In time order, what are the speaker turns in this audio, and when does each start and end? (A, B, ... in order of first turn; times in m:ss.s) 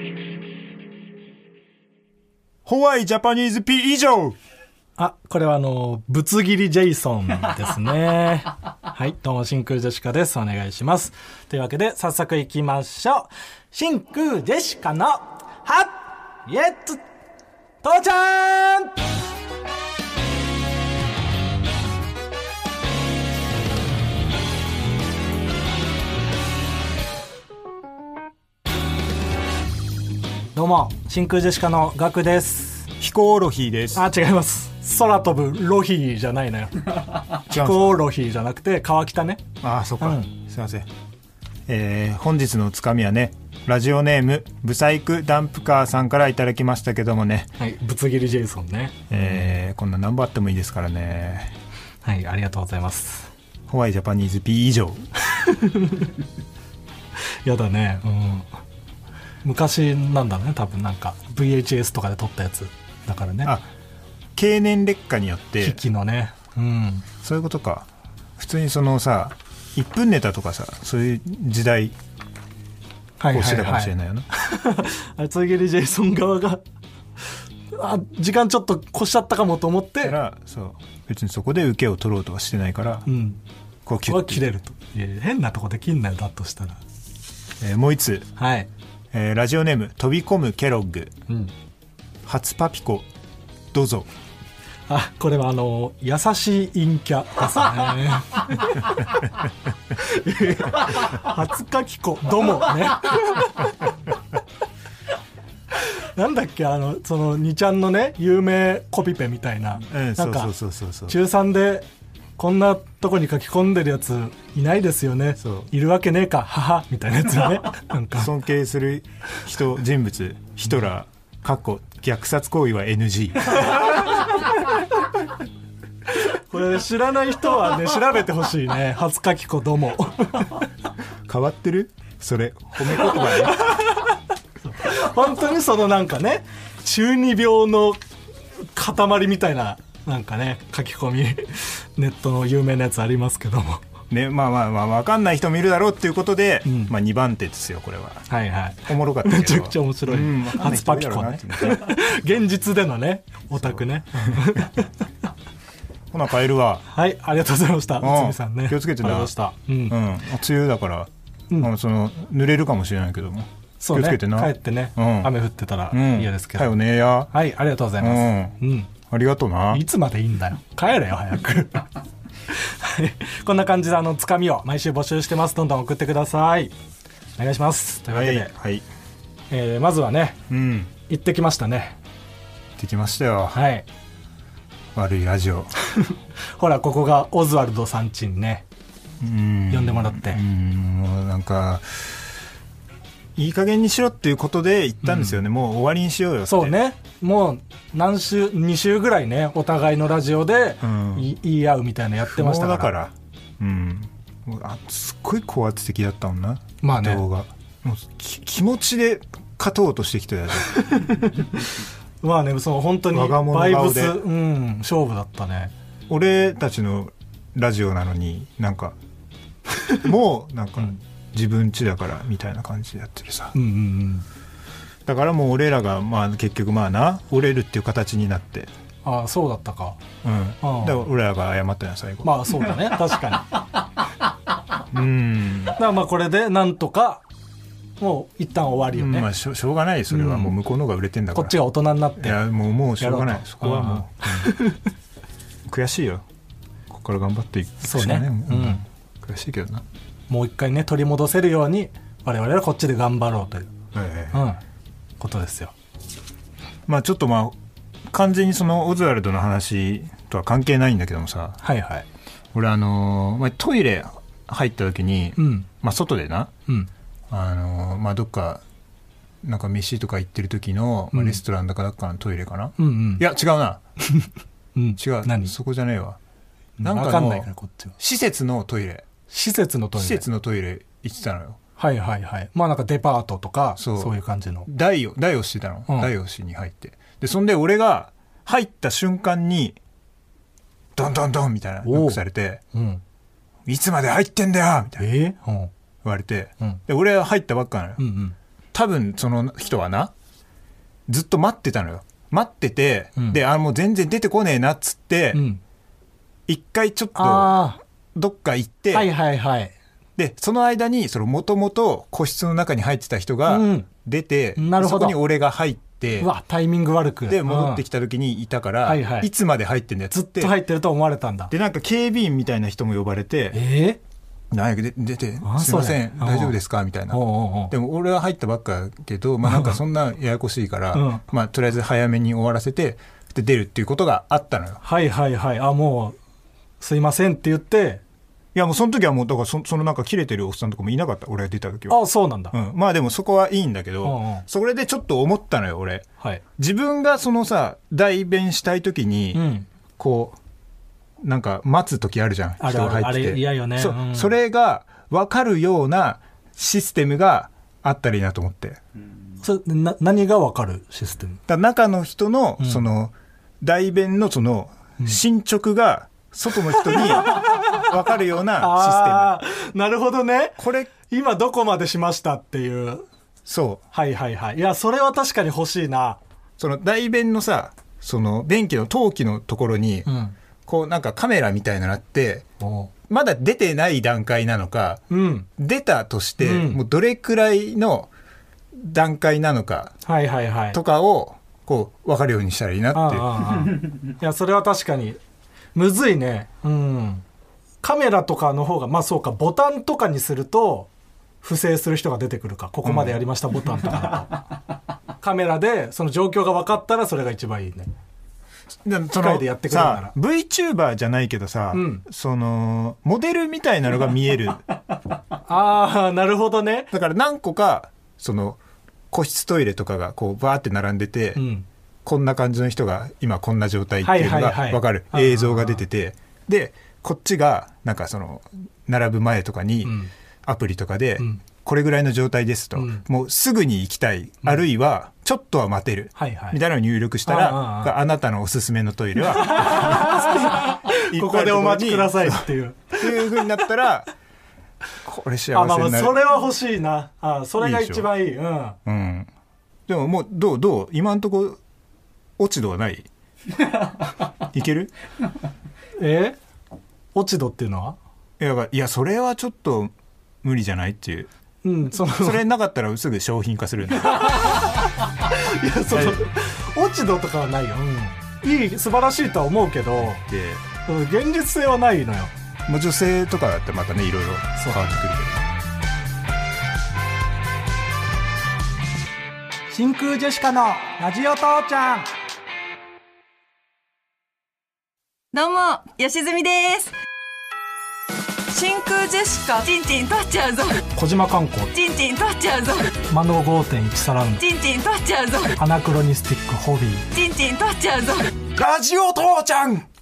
0:02.6-0:04.4 A
0:05.0-0:17.0 B
0:17.8-0:19.0 B
0:30.5-0:32.9 B
0:33.0-0:34.0 A
0:33.9-0:39.5 B
0:37.5-0:38.0 A
0:39.6-0:40.9 A
0:40.0-0:40.3 B
0:41.7-0:47.5 A
0:47.6-0:49.1 B
0:49.1-0:51.5 A
0:52.0-0:53.3 B
0:53.7-0:55.0 A
0:55.3-0:56.1 B
0:57.4-0:58.5 B
0:59.4-1:03.5 B
1:04.3-1:05.8 A
1:05.6-1:07.0 B
1:07.2-1:07.9 A
1:08.4-1:11.9 A
1:13.2-1:16.6 B
1:13.3-1:14.3 A
1:17.7-1:20.2 B
1:20.0-1:23.0 A
1:23.0-1:23.4 B
1:23.8-1:24.4 A
1:24.0-1:26.8 B
1:27.6-1:28.3 A
1:28.4-1:28.7 B
1:29.1-1:31.1 A
1:32.2-1:33.1 A
1:33.7-1:34.1 A
1:34.9-1:38.9 B
1:40.0-1:43.5 B
1:45.8-1:50.5 B
1:49.9-1:51.2 A
1:51.1-1:58.3 B
1:55.4-1:55.7 A
1:58.2-2:03.9 A
2:03.6-2:04.2 B
2:06.1-2:10.6 B
2:11.2-2:13.7 A
2:13.1-2:18.0 B
2:18.7-2:23.8 B
2:24.1-2:28.3 A
2:26.6-2:26.9 B
2:28.3-2:34.9 B
2:28.8-2:32.0 A
2:33.6-2:34.6 A
2:36.1-2:36.8 A
2:36.9-2:40.0 B
2:38.0-2:39.3 A
2:39.9-2:45.3 A
2:43.8-2:46.7 B
2:45.9-2:47.3 A
2:47.3-2:48.9 B
2:48.0-2:49.8 A
2:49.7-2:51.9 B
2:52.5-2:56.7 B
2:57.4-2:58.5 B
2:58.1-2:58.8 A
2:59.5-3:00.4 B
3:00.5-3:00.9 A
3:01.0-3:02.0 B
3:02.8-3:03.6 A
3:03.5-3:03.8 B
3:04.9-3:05.7 A
3:05.9-3:08.6 B
3:09.2-3:12.3 A
3:09.7-3:10.4 B
3:13.4-3:16.8 A
3:15.0-3:15.4 B
3:16.5-3:22.9 B
3:20.8-3:21.3 A
3:22.2-3:30.8 A
3:26.8-3:27.2 B
3:30.7-3:31.4 B
3:32.2-3:35.7 B
3:33.1-3:34.2 A
3:36.1-3:39.0 A
3:39.9-3:43.5 A
3:43.5-3:44.2 B
3:45.0-3:48.7 A
3:49.0-3:50.0 B
3:50.2-3:52.6 A
3:50.6-3:51.0 B
3:52.2-3:53.6 B
3:54.9-3:55.8 A
3:55.8-3:57.2 B
3:58.0-3:59.3 B
3:58.9-4:01.6 A
4:00.1-4:00.5 B
4:01.3-4:02.4 B
4:02.2-4:04.6 A
4:03.0-4:04.8 B
4:05.7-4:06.2 A
4:06.9-4:09.8 A
4:07.8-4:08.8 B
4:10.3-4:13.7 B
4:13.9-4:14.4 A
4:14.3-4:14.6 B
4:15.2-4:15.7 B
4:16.9-4:17.6 A
4:18.1-4:21.6 A
4:21.6-4:22.0 B
4:22.5-4:26.5 A
4:25.4-4:25.7 B
4:27.3-4:28.6 A
4:29.4-4:33.8 A
4:31.1-4:31.4 B
4:32.8-4:33.2 B
4:34.0-4:35.5 B
4:35.0-4:36.2 A
4:36.8-4:37.9 B
4:36.8-4:39.0 A
4:39.3-4:40.2 B
4:40.0-4:41.6 A
4:41.8-4:44.7 B
4:43.8-4:49.8 A
4:51.0-4:52.6 A
4:51.8-4:52.2 B
4:52.7-4:53.0 B
4:53.6-4:55.1 A
4:55.0-4:55.7 B
4:56.0-4:58.0 A
4:58.0-4:58.3 B
4:58.7-5:00.1 A
5:01.1-5:05.4 A
5:05.3-5:05.6 B
5:06.5-5:07.6 A
5:07.2-5:07.8 B
5:08.1-5:09.1 A
5:08.9-5:09.7 B
5:10.2-5:16.3 A
5:13.5-5:13.9 B
5:14.6-5:15.2 B
5:16.2-5:17.8 B
5:17.3-5:20.6 A
5:18.8-5:19.3 B
5:20.1-5:21.5 B
5:21.5-5:23.6 A
5:23.5-5:24.0 B
5:24.5-5:34.8 A
5:25.4-5:26.6 B
5:27.1-5:27.7 B
5:29.4-5:29.8 B
5:30.9-5:31.2 B
5:34.8-5:36.2 B
5:36.8-5:38.0 B
5:38.5-5:50.4 A
5:41.9-5:42.5 B
5:44.0-5:44.4 B
5:49.3-5:49.7 B
5:51.2-5:58.8 A
5:52.6-5:54.3 B
5:59.4-6:01.4 B
6:01.5-6:09.4 A
6:06.9-6:07.6 B
6:08.6-6:13.0 B
6:10.6-6:10.9 A
6:13.4-6:13.8 A
6:13.9-6:16.2 B
6:16.6-6:20.1 A
6:20.0-6:20.3 B
6:20.6-6:22.4 A
6:22.6-6:22.9 B
6:23.1-6:25.0 A
6:25.1-6:25.5 B
6:25.6-6:28.1 A
6:26.4-6:26.8 B
6:28.7-6:30.0 A
6:30.0-6:30.8 B
6:30.7-6:33.6 A
6:32.9-6:35.2 B
6:35.7-6:37.2 B
6:37.8-6:40.9 B
6:41.4-6:44.4 B
6:42.8-6:43.2 A
6:45.2-6:47.9 B
6:48.8-6:54.6 A
6:49.2-6:50.1 B
6:51.7-6:52.0 B
6:55.5-6:56.9 B
6:56.9-6:58.6 A
6:59.1-7:01.4 A
7:01.3-7:01.6 B
7:02.0-7:24.1 A
7:04.0-7:05.8 B
7:09.8-7:10.1 B
7:12.8-7:13.0 B
7:16.2-7:16.6 B
7:17.2-7:18.0 B
7:19.4-7:23.5 B
7:25.0-7:26.2 A
7:25.5-7:28.8 B
7:27.6-7:28.1 A
7:28.8-7:29.3 A
7:29.9-7:31.6 A
7:32.4-7:33.1 A
7:34.4-7:34.9 A
7:36.0-7:36.4 B
7:37.1-7:38.0 B
7:38.4-7:39.9 A
7:40.4-7:41.3 A
7:41.6-7:42.4 B
7:42.0-7:44.6 A
7:44.2-7:50.2 B
7:45.9-7:46.2 A
7:50.0-7:50.6 A
7:50.8-7:52.3 B
7:52.7-7:55.4 A
7:54.6-7:54.9 B
7:59.7-8:02.1 B
8:05.3-8:06.9 C
8:08.5-8:10.9 C
8:10.9-8:11.7 B
8:11.7-8:13.0 C
8:13.1-8:14.4 B
8:14.4-8:15.6 C
8:15.6-8:17.0 B
8:17.1-8:18.5 C
8:18.5-8:19.9 A